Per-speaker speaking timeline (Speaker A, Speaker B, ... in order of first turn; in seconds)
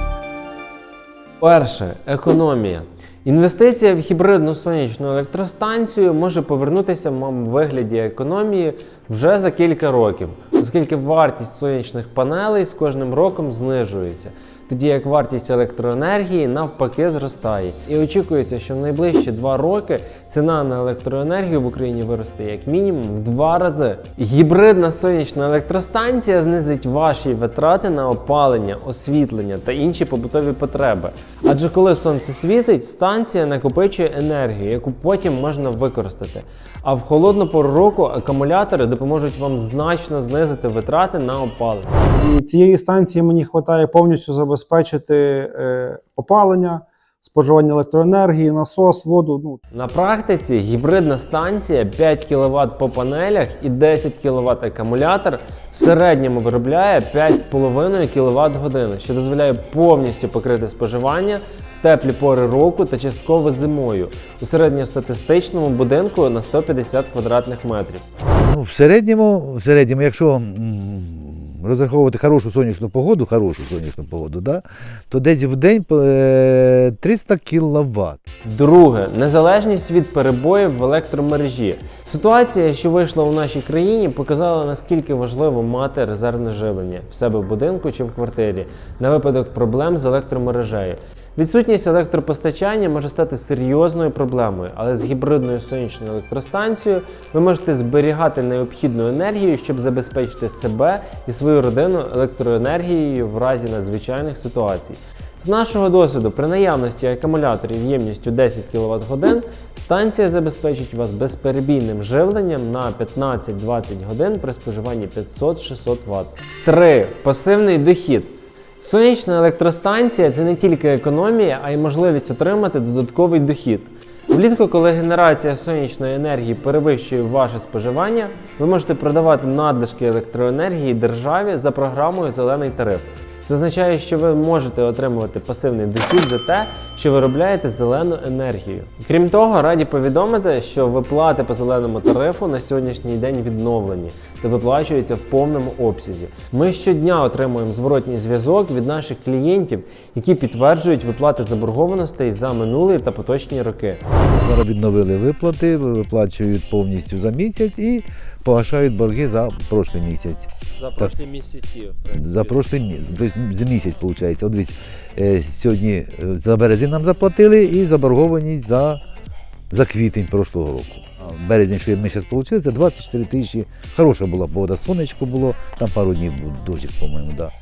Speaker A: 1.4-42.0, 49.7-68.0, 78.5-154.1, 160.8-162.7
Speaker B: 42.1-49.6
Speaker C: 68.4-78.2, 154.3-161.2, 162.2-169.0, 169.7-177.5